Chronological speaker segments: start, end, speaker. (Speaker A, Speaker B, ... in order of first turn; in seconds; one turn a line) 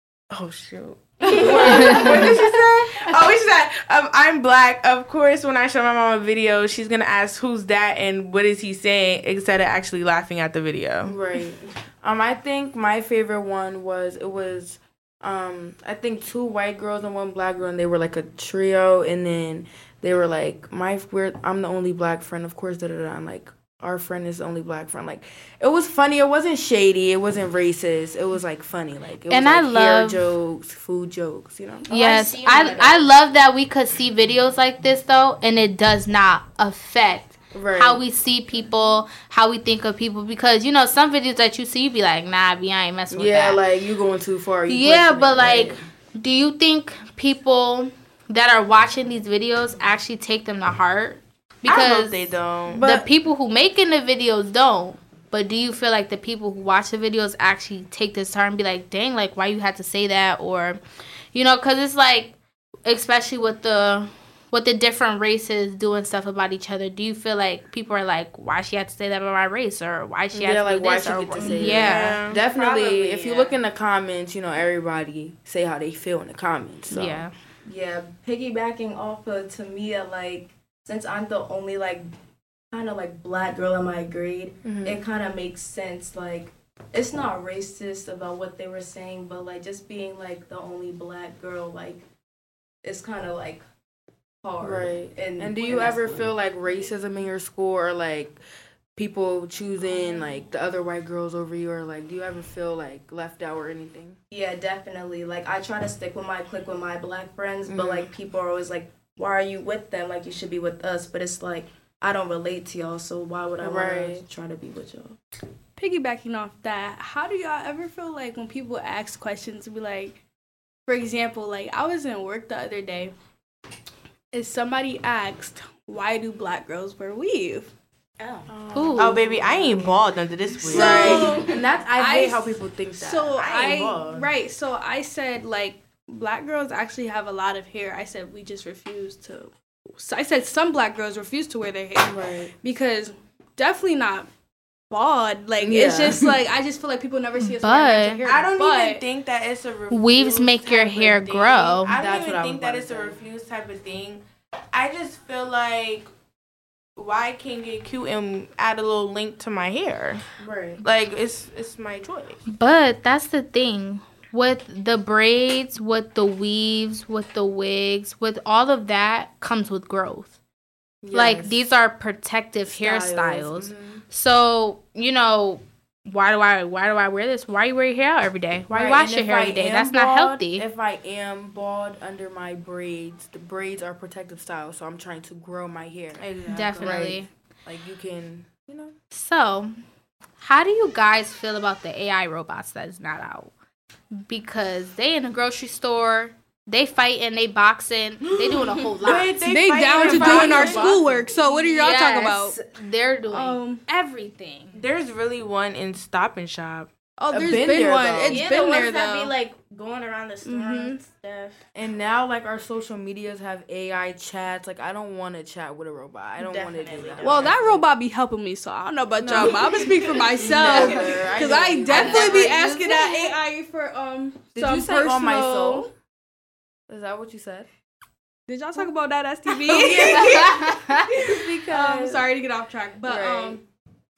Speaker A: 0.3-11.2
Speaker B: 1.2-2.6
Speaker B: 11.0-32.2
Speaker C: 29.3-30.3
Speaker C: 31.9-43.6
Speaker D: 31.9-33.0
Speaker B: 37.5-38.0
Speaker B: 43.1-45.8
Speaker C: 44.7-60.8
Speaker A: 51.6-53.0
Speaker B: 52.8-53.0
Speaker C: 61.3-72.2
Speaker B: 70.3-77.2
Speaker D: 71.4-71.7
Speaker A: 71.6-72.4
Speaker D: 72.4-73.6
Speaker C: 76.9-77.3
Speaker D: 77.7-82.1
Speaker D: 82.7-92.0
Speaker B: 84.6-85.0
Speaker D: 92.8-93.6
Speaker D: 94.4-96.2
Speaker B: 94.6-98.4
Speaker B: 99.0-104.2
Speaker D: 104.3-115.2
Speaker B: 107.7-108.1
Speaker B: 113.6-114.2
Speaker E: 115.8-120.2
Speaker E: 120.9-123.1
Speaker E: 124.3-127.7
Speaker D: 128.2-129.9
Speaker B: 128.7-129.1
Speaker C: 128.7-129.2
Speaker A: 128.9-131.4
Speaker E: 130.6-144.3
Speaker B: 130.7-133.5
Speaker A: 133.4-134.2
Speaker D: 133.5-134.0
Speaker B: 142.0-142.5
Speaker E: 144.9-149.0
Speaker B: 145.6-146.4
Speaker C: 147.3-148.2
Speaker A: 148.2-156.1
Speaker C: 149.9-151.9
Speaker B: 151.9-153.2
Speaker A: 157.0-160.2
Speaker B: 160.4-160.8
Speaker A: 160.8-162.4
Speaker C: 162.5-170.3
Speaker B: 171.0-171.6
Speaker C: 171.1-180.7
Speaker B: 172.7-174.0
Speaker B: 178.7-188.9
Speaker A: 186.2-186.9
Speaker C: 186.5-187.3
Speaker C: 189.1-189.7
Speaker C: 190.4-193.5
Speaker C: 194.1-199.4
Speaker A: 199.0-201.0
Speaker E: 199.4-202.6
Speaker B: 200.0-201.2
Speaker C: 200.1-200.7
Speaker C: 201.4-204.8
Speaker E: 203.3-203.8
Speaker A: 204.7-206.9
Speaker E: 207.2-209.3
Speaker B: 207.3-208.5
Speaker D: 208.2-211.6
Speaker E: 210.4-211.0
Speaker B: 211.7-217.8
Speaker D: 216.4-217.7
Speaker E: 217.2-225.9
Speaker B: 219.2-223.2
Speaker C: 220.6-221.0
Speaker C: 221.9-222.9
Speaker B: 224.5-225.9
Speaker B: 226.9-227.7
Speaker E: 228.5-233.6
Speaker B: 229.7-232.3
Speaker C: 229.8-231.1
Speaker B: 233.0-233.6